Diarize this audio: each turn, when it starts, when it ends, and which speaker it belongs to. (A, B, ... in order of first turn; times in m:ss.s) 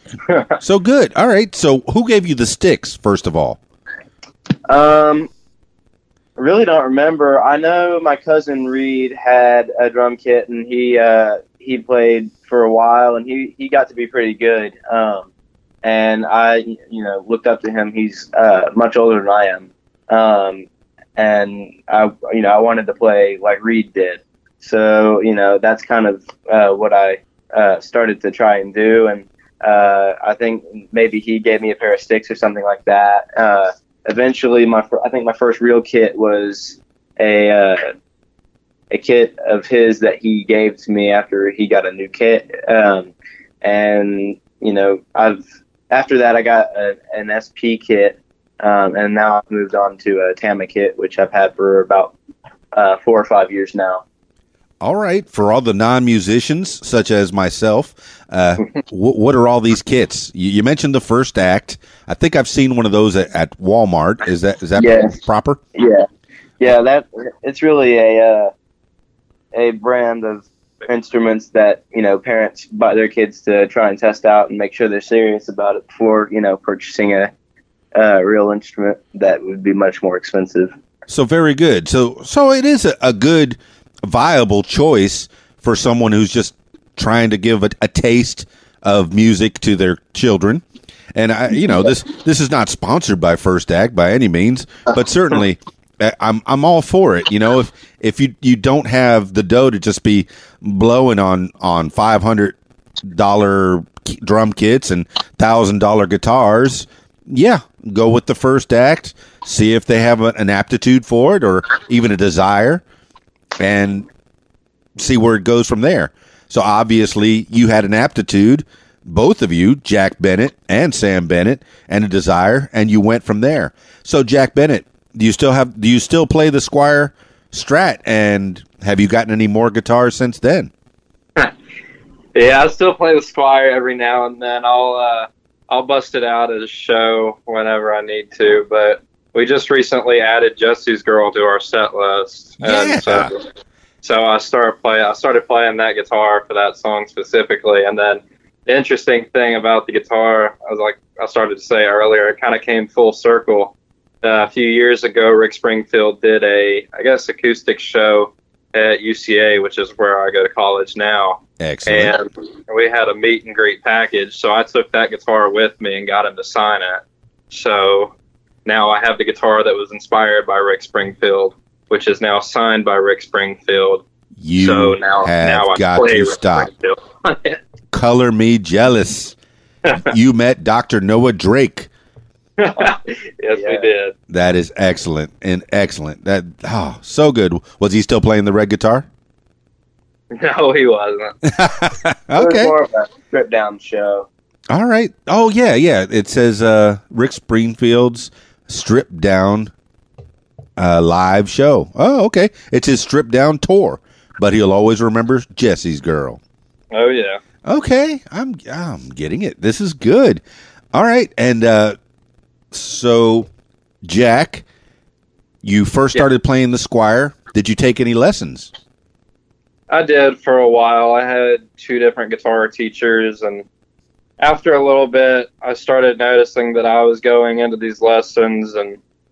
0:00.3-0:00.6 A
0:00.6-0:03.6 B
0:04.7-0:05.3 C
0:06.4-0:15.3 C
0:15.8-0:20.7 C
0:21.2-0:37.9 C
0:38.9-0:52.2 C
0:52.7-0:54.0 C
0:54.8-1:05.6 B
1:04.8-1:05.2 C
1:05.8-1:06.1 C
1:06.6-1:08.5 C
1:09.5-1:17.3 C
1:17.9-1:20.7 C
1:21.1-1:52.8 B
1:53.6-1:54.1 B
1:55.0-2:10.7 B
2:12.4-2:23.5 A
2:22.6-2:23.3 B
2:24.0-2:48.1 A
2:41.6-2:42.2 B
2:48.6-2:54.0 A
2:54.4-2:56.7 B
2:54.6-2:57.6 A
2:57.9-2:59.4 B
3:00.0-3:01.9 B
3:02.6-3:04.1 A
3:03.5-3:03.9 C
3:04.3-3:09.1 B
3:10.3-3:11.4 A
3:11.4-3:12.7 B
3:12.4-3:14.3 C
3:14.7-3:19.7 B
3:20.8-3:26.4 B
3:26.9-3:27.4 A
3:27.6-3:30.4 B
3:30.9-3:32.0 B
3:32.7-3:33.5 B
3:34.0-3:34.6 B
3:35.6-3:38.7 B
3:39.9-3:43.6 A
3:44.4-3:49.0 A